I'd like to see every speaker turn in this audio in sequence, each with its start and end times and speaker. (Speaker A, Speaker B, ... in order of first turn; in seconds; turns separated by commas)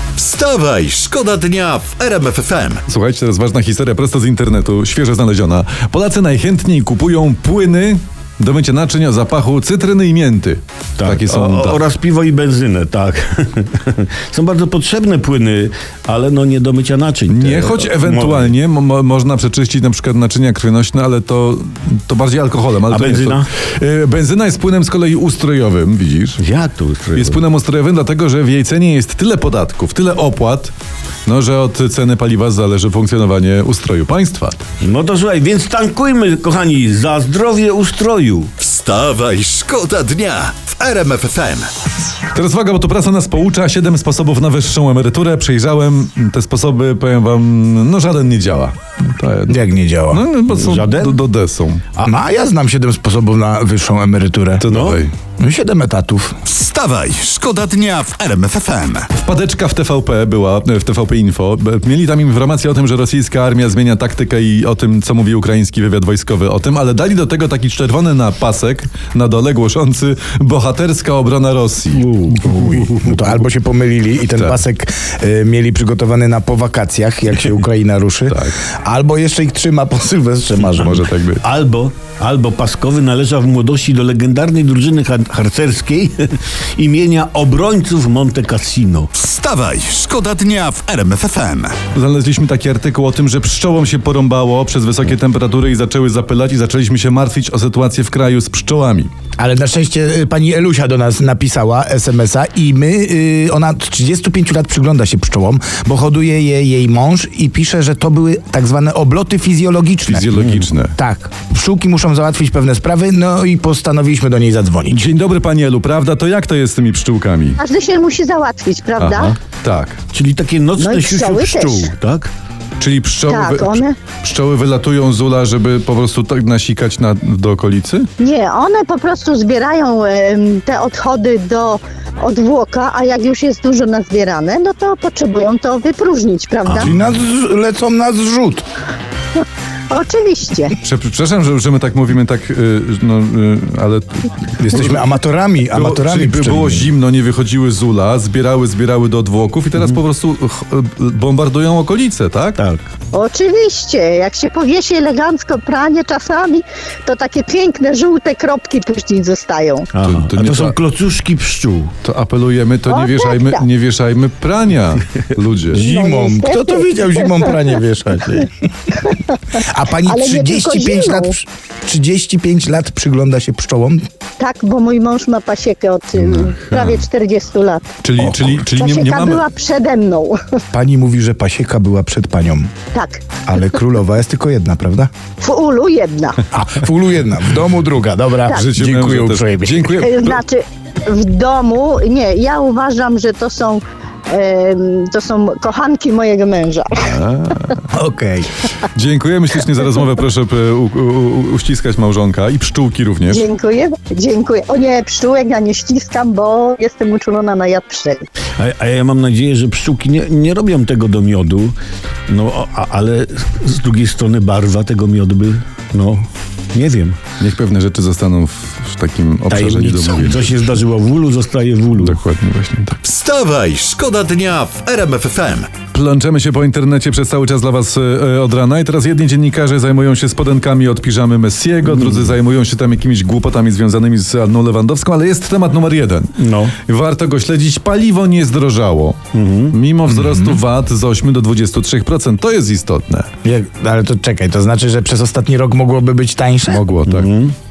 Speaker A: 0.2-2.8, Speaker B: 2.9-11.8, Speaker C: 11.0-18.5, Speaker B: 17.3-26.4, Speaker C: 22.9-23.5, Speaker C: 26.4-27.4, Speaker B: 27.1-30.7, Speaker B: 31.2-34.6, Speaker C: 34.8-38.5, Speaker A: 38.6-41.7, Speaker B: 42.3-49.6, Speaker D: 49.5-50.2, Speaker B: 50.1-51.9, Speaker C: 50.5-51.2, Speaker D: 52.0-54.6, Speaker B: 54.6-55.1, Speaker C: 54.7-55.0, Speaker D: 55.4-56.3, Speaker A: 56.5-59.1, Speaker B: 59.1-72.2, Speaker C: 72.0-73.3, Speaker D: 72.3-81.0, Speaker B: 74.3-74.6, Speaker B: 78.3-78.5, Speaker B: 80.7-81.5, Speaker C: 81.4-89.1, Speaker A: 89.1-91.8, Speaker B: 91.9-99.1, Speaker D: 99.4-110.3, Speaker B: 110.0-110.9, Speaker C: 110.4-110.6, Speaker D: 111.0-115.0, Speaker B: 114.9-117.6, Speaker E: 117.6-119.3, Speaker B: 119.0-120.0, Speaker C: 120.1-122.3, Speaker E: 120.8-121.9, Speaker B: 122.8-128.1, Speaker E: 123.3-123.9, Speaker E: 128.2-136.9, Speaker D: 136.8-138.6, Speaker E: 139.9-140.7, Speaker B: 140.8-145.1, Speaker D: 144.6-146.9, Speaker B: 145.7-152.6, Speaker C: 152.6-152.8, Speaker E: 153.1-159.9, Speaker C: 159.9-161.9, Speaker B: 160.0-160.8, Speaker B: 162.0-165.8, Speaker E: 162.9-163.6, Speaker D: 165.7-168.5, Speaker E: 165.7-167.7, Speaker E: 169.0-169.3, Speaker D: 169.6-174.0, Speaker E: 170.0-171.3, Speaker E: 174.4-177.8, Speaker B: 176.6-177.0, Speaker B: 178.0-179.4, Speaker D: 178.2-178.6, Speaker E: 178.6-180.4, Speaker D: 180.7-182.7, Speaker E: 182.9-183.2, Speaker D: 183.4-185.1, Speaker E: 185.4-186.4, Speaker D: 186.5-190.0, Speaker B: 188.5-190.4, Speaker E: 189.9-197.1, Speaker B: 197.0-197.9, Speaker D: 197.9-198.6, Speaker B: 198.9-203.4, Speaker E: 203.3-208.2, Speaker C: 208.6-211.8, Speaker C: 212.3-217.2, Speaker B: 217.4-220.5, Speaker C: 219.5-222.2, Speaker B: 222.0-223.0, Speaker A: 223.0-225.7, Speaker B: 225.9-236.3, Speaker C: 231.8-232.3, Speaker C: 236.4-236.7, Speaker B: 236.8-239.2, Speaker C: 239.3-239.8, Speaker B: 239.7-243.3, Speaker D: 240.1-240.6, Speaker D: 243.4-246.8, Speaker B: 246.7-247.3, Speaker C: 247.1-247.5